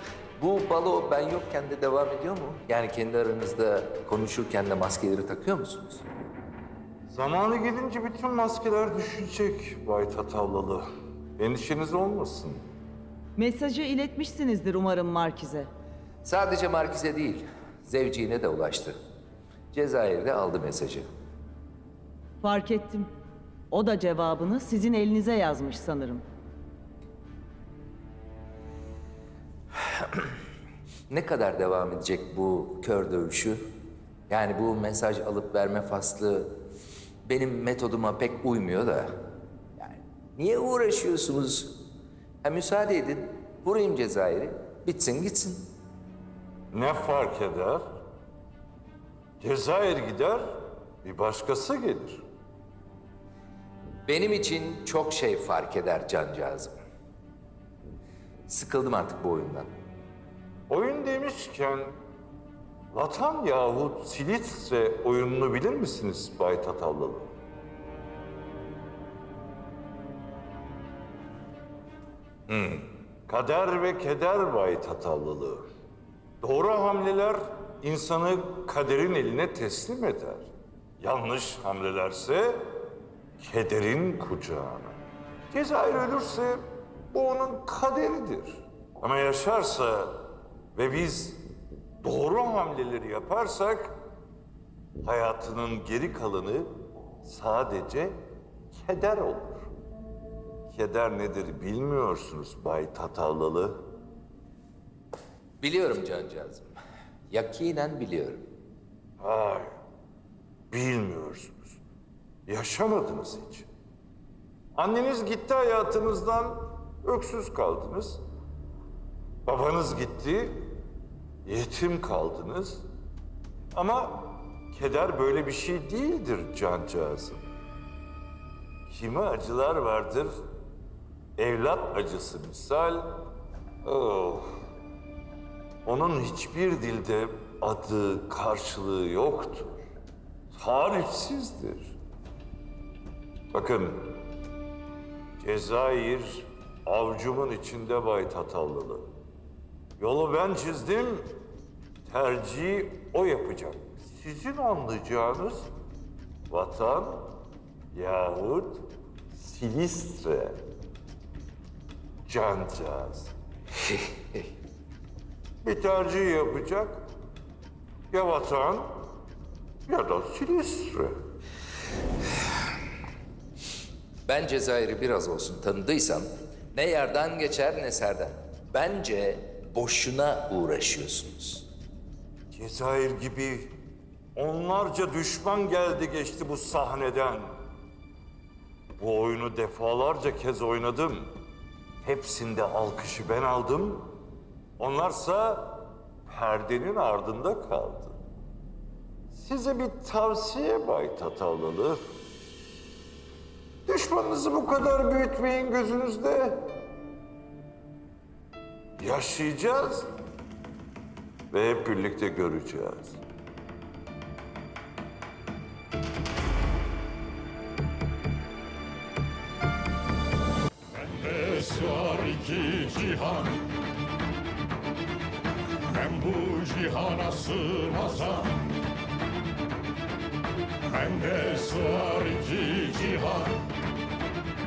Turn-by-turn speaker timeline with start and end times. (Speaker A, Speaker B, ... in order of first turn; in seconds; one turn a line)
Speaker A: 0.4-6.0
Speaker B: 7.1-10.8
Speaker B: 11.4-12.6
Speaker C: 13.4-15.7
Speaker A: 16.2-18.9
Speaker A: 19.7-21.1
Speaker C: 22.4-23.1
Speaker C: 23.7-26.2
Speaker A: 29.9-30.4
Speaker A: 31.1-33.6
Speaker A: 34.3-36.5
Speaker A: 37.3-39.1
Speaker A: 39.8-41.8
Speaker A: 42.4-45.6
Speaker B: 46.7-47.9
Speaker B: 49.4-52.2
Speaker A: 54.1-56.7
Speaker A: 58.5-59.7
Speaker B: 60.7-61.9
Speaker B: 62.9-67.3
Speaker A: 72.5-72.9
Speaker B: 73.3-75.7
Speaker B: 76.4-82.7
Speaker B: 83.4-85.0
Speaker B: 85.5-91.4
Speaker B: 92.0-94.0
Speaker B: 95.0-98.2
Speaker B: 98.7-99.7
Speaker B: 100.7-103.8
Speaker A: 105.6-106.7
Speaker A: 107.3-108.4
Speaker B: 109.2-109.7
Speaker B: 110.7-111.8
Speaker B: 112.5-113.7
Speaker B: 114.8-118.2
Speaker B: 119.5-120.8
Speaker B: 121.5-122.8
Speaker B: 123.7-127.5
Speaker B: 128.9-130.3
Speaker B: 131.4-133.2
Speaker B: 133.8-134.6
Speaker B: 135.8-139.8
Speaker B: 140.5-142.0
Speaker B: 143.5-144.2
Speaker B: 145.4-149.1
Speaker B: 150.0-151.3
Speaker B: 152.1-155.7
Speaker B: 156.5-157.3
Speaker B: 157.9-160.6
Speaker B: 162.3-163.3
Speaker B: 165.6-167.1
Speaker B: 168.1-169.0
Speaker B: 169.9-171.2
Speaker A: 174.3-181.7
Speaker B: 182.5-183.8
Speaker B: 184.3-187.6
Speaker B: 189.0-191.4
Speaker B: 192.0-194.2
Speaker B: 194.8-198.2
Speaker B: 199.3-202.0
Speaker B: 203.9-206.7
Speaker B: 209.0-210.1
Speaker B: 211.5-213.2
Speaker D: 220.9-223.6
Speaker D: 225.9-228.7
Speaker D: 230.9-233.6